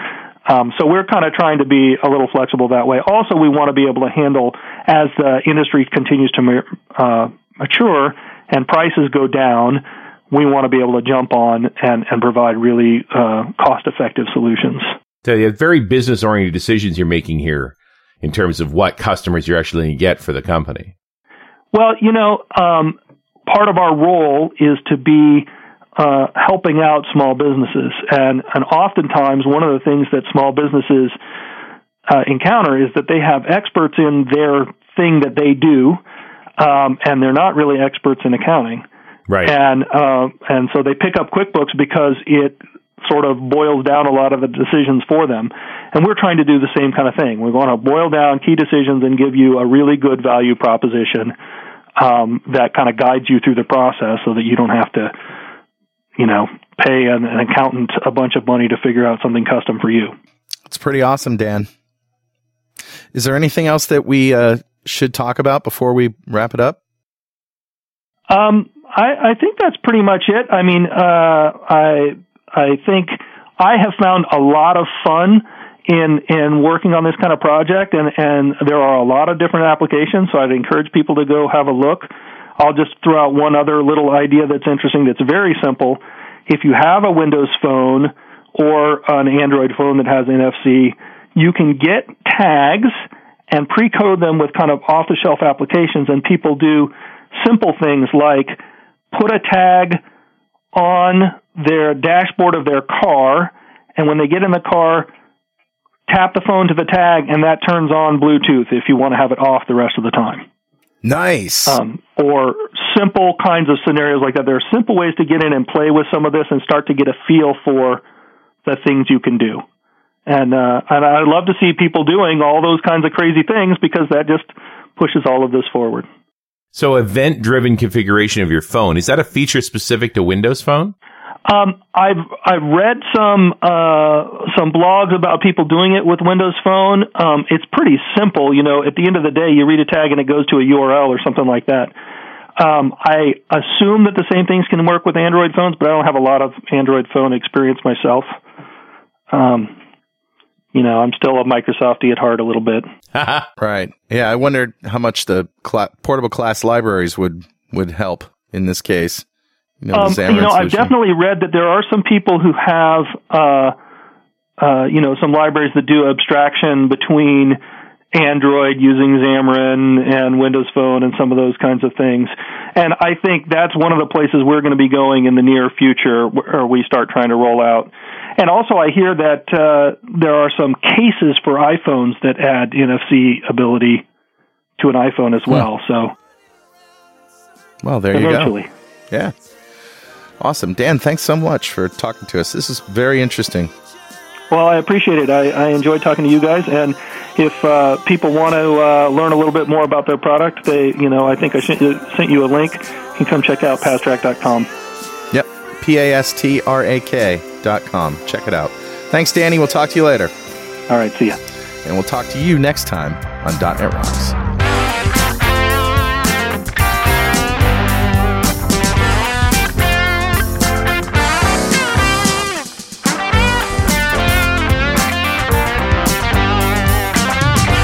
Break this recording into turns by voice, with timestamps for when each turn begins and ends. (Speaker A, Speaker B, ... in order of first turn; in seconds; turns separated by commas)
Speaker A: 0.5-14.9, Speaker B: 15.2-20.9, Speaker A: 21.7-31.1, Speaker A: 32.1-36.0, Speaker A: 36.6-38.8, Speaker B: 39.3-39.5, Speaker A: 39.4-51.3, Speaker A: 52.0-55.1, Speaker A: 56.2-60.1, Speaker C: 60.7-61.7, Speaker C: 63.1-66.8, Speaker A: 68.3-98.6, Speaker A: 99.1-100.0, Speaker A: 100.7-105.1, Speaker A: 106.1-110.4, Speaker C: 111.0-111.8, Speaker A: 111.7-118.0, Speaker A: 118.6-119.6, Speaker A: 120.2-126.1, Speaker B: 126.7-130.9, Speaker A: 131.4-141.9, Speaker A: 142.6-148.3, Speaker A: 149.3-149.7, Speaker A: 150.7-152.9, Speaker B: 153.1-153.4, Speaker C: 153.6-159.2, Speaker C: 159.8-160.9, Speaker A: 159.9-163.7, Speaker A: 164.6-167.6, Speaker A: 168.1-184.0, Speaker A: 184.8-186.1, Speaker C: 187.8-188.5, Speaker A: 188.1-188.7, Speaker C: 190.4-193.7, Speaker A: 194.5-204.7, Speaker C: 205.3-210.3, Speaker A: 210.9-211.4, Speaker C: 211.8-214.4